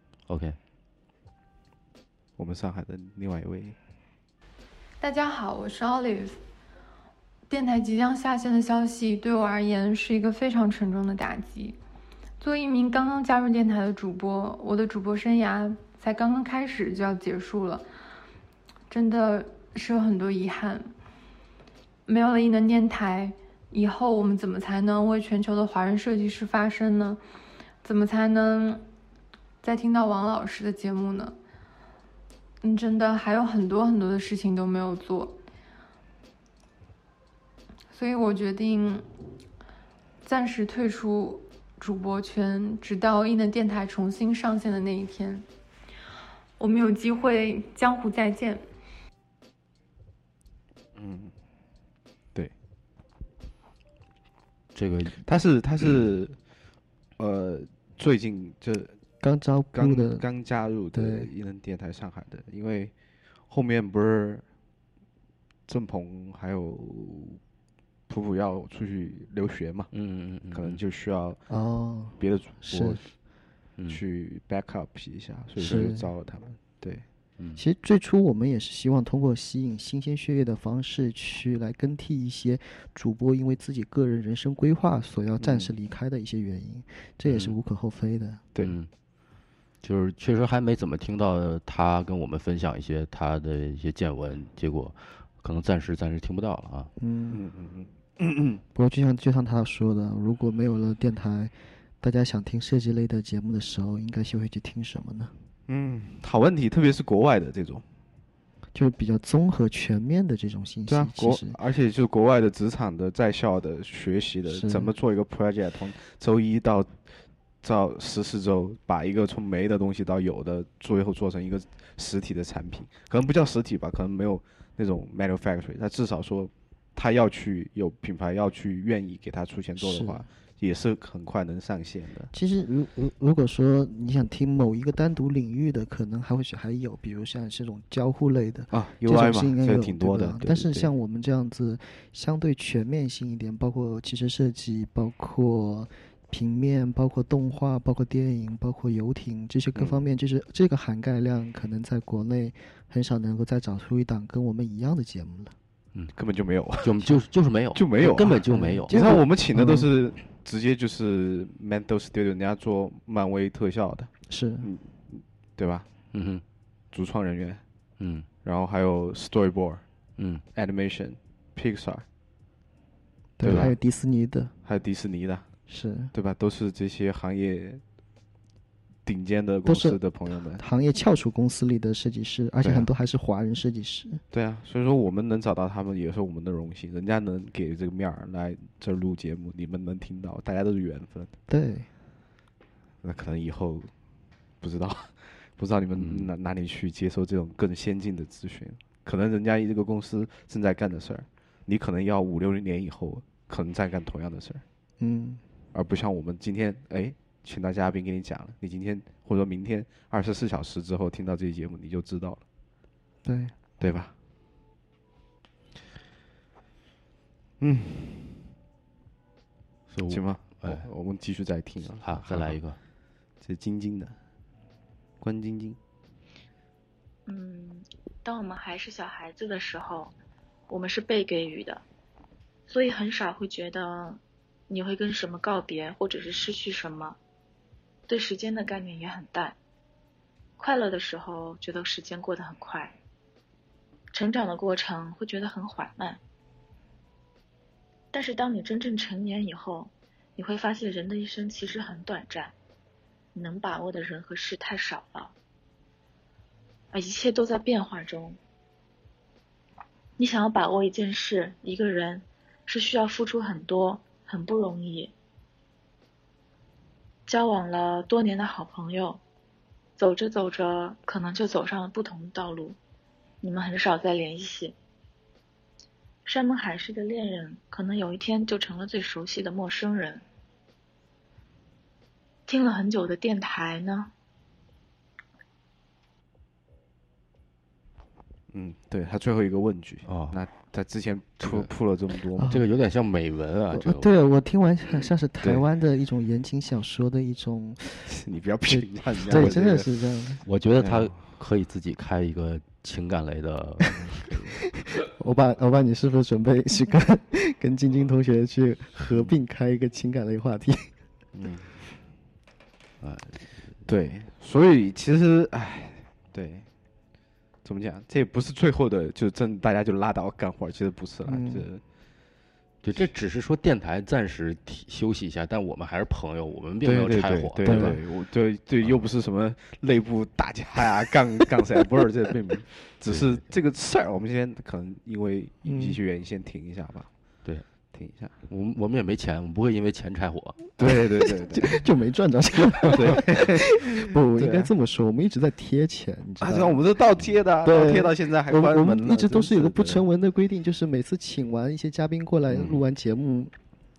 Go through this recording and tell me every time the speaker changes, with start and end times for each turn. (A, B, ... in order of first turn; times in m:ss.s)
0:00.3-0:00.6 A
0:02.4-0:03.8 B
0:05.0-0:06.4 C
0:07.5-0:11.8 C
0:12.4-0:17.8 C
0:18.9-0:20.9 C
0:22.1-0:27.2 C
0:27.8-0:28.8 C
0:29.6-0:31.4 C
0:32.6-0:35.4 C
0:37.9-0:39.0 C
0:40.2-0:45.4 C
0:46.6-0:48.7 C
0:51.0-0:51.3 B
0:54.8-0:55.3 A
0:55.1-0:56.4 B
0:57.2-0:59.0 B
0:59.2-1:00.3 D
0:59.7-1:02.9 B
1:00.9-1:01.3 D
1:03.5-1:04.4 B
1:05.7-1:07.4 B
1:08.1-1:09.9 B
1:09.9-1:10.8 A
1:10.5-1:11.4 B
1:11.5-1:13.0 D
1:12.2-1:13.0 B
1:13.9-1:17.0 B
1:15.6-1:15.9 A
1:15.6-1:16.1 D
1:17.6-1:28.4 D
1:25.4-1:25.7 B
1:27.3-1:27.6 A
1:28.6-1:28.9 A
1:29.8-1:36.9 A
1:37.0-1:37.4 D
1:37.3-1:38.6 B
1:38.8-1:45.3 D
1:45.7-1:47.8 B
1:48.7-1:51.6 D
1:50.9-1:57.1 B
1:54.5-1:54.9 D
1:57.6-2:12.3 B
2:09.8-2:10.3 D
2:12.3-2:35.5 D
2:18.7-2:20.9 B
2:36.1-2:37.1 B
2:36.8-2:39.0 A
2:37.8-2:44.1 B
2:38.5-2:39.9 D
2:44.3-2:44.7 D
2:44.6-2:45.9 B
2:46.1-2:46.4 A
2:46.9-2:47.6 B
2:48.0-2:48.3 A
2:48.4-2:49.8 B
2:50.2-2:50.4 A
2:50.5-2:52.0 B
2:53.4-2:54.5 D
2:53.4-2:53.8 B
2:53.4-2:53.7 A
2:54.6-2:55.5 B
2:55.7-2:56.1 D
2:56.1-2:57.8 B
2:59.1-3:00.6 B
2:59.6-3:04.2 D
3:02.6-3:02.9 B
3:04.3-3:11.3 B
3:11.5-3:11.9 D
3:13.0-3:13.9 B
3:14.6-3:24.6 B
3:16.0-3:16.3 A
3:25.0-3:25.4 D
3:25.7-3:32.4 B
3:33.2-3:33.6 D
3:33.8-3:34.1 B
3:37.6-3:38.4 B
3:39.9-3:40.9 A
3:40.1-3:42.6 B
3:42.0-3:42.8 A
3:43.4-3:44.2 B
3:45.2-3:45.8 B
3:47.3-3:50.1 E
3:50.7-3:51.8 E
3:52.7-3:57.2 E
3:58.1-3:59.6 E
4:00.6-4:03.0 E
4:04.1-4:06.2 E
4:08.1-4:12.5 E
4:13.3-4:15.3 E
4:16.9-4:18.4 E
4:20.2-4:25.1 E
4:27.3-4:29.2 E
4:30.0-4:32.8 E
4:33.4-4:34.8 E
4:36.2-4:40.2 E
4:42.5-4:44.1 E
4:48.5-4:52.6 B
4:50.1-4:50.4 A
4:51.4-4:51.7 A
4:52.4-4:52.6 D
4:52.5-4:54.1 A
4:53.7-5:00.4 D
4:58.1-4:59.9 B
5:00.4-5:04.6 A
5:00.8-5:01.2 B
5:05.2-5:10.9 D
5:11.4-5:11.6 B
5:13.0-5:13.7 A
5:13.9-5:16.7 B
5:17.6-5:21.8 B
5:21.3-5:21.7 D
5:22.8-5:28.0 A
5:26.8-5:37.1 B
5:27.6-5:28.0 D
5:33.0-5:33.5 A
5:35.6-5:36.0 D
5:37.9-5:38.4 B
5:38.5-5:40.6 A
5:40.8-5:41.8 B
5:40.9-5:46.8 D
5:42.9-5:44.7 B
5:46.4-5:50.0 B
5:47.6-5:53.5 D